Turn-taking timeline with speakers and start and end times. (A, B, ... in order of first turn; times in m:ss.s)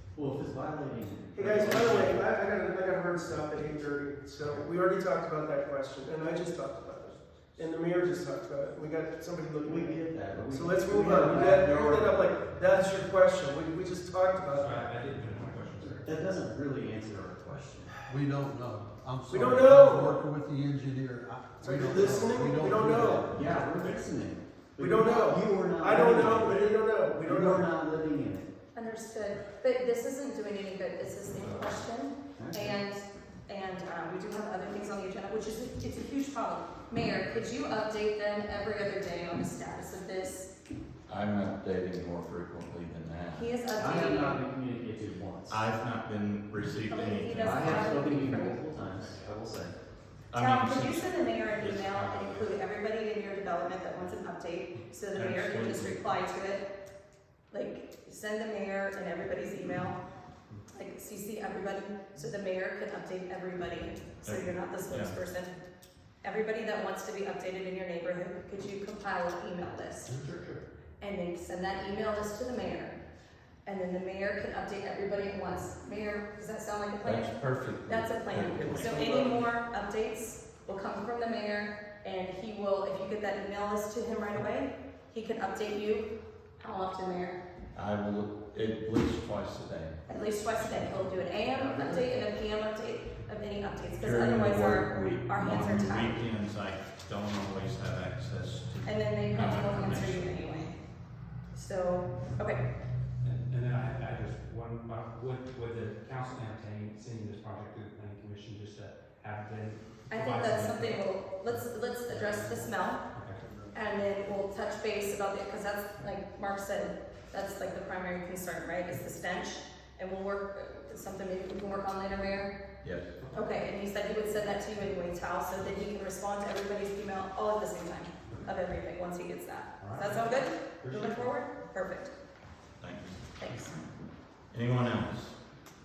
0:00.2-0:02.3 A
0:01.3-0:14.8 B
0:09.5-0:12.3 A
0:14.5-0:16.3 C
0:15.8-0:18.0 A
0:18.1-0:23.4 D
0:19.3-0:20.2 B
0:21.6-0:23.3 B
0:23.3-0:28.5 A
0:24.8-0:27.7 B
0:28.7-0:40.5 E
0:32.4-0:32.8 A
0:41.1-0:43.5 F
0:43.3-0:44.4 E
0:43.7-0:45.6 A
0:45.5-0:48.0 F
0:46.8-0:48.6 E
0:47.4-0:49.7 A
0:50.3-0:51.8 F
0:50.4-0:56.7 E
0:51.6-0:52.5 C
0:55.1-0:56.0 F
0:57.5-1:00.0 E
1:00.7-1:05.6 E
1:04.2-1:05.2 F
1:06.2-1:10.1 E
1:10.1-1:10.6 C
1:11.0-1:13.0 E
1:13.7-1:27.4 E
1:17.0-1:19.0 F
1:27.8-1:30.0 F
1:30.1-1:36.2 E
1:34.0-1:40.4 F
1:38.8-1:40.8 E
1:41.5-1:42.6 E
1:43.2-1:53.4 C
1:50.1-1:53.0 E
1:53.7-2:02.5 E
2:02.8-2:03.1 F
2:03.2-2:03.5 C
2:03.3-2:12.1 E
2:09.8-2:11.3 C
2:12.8-2:13.2 F
2:13.4-2:13.8 E
2:14.5-2:15.4 F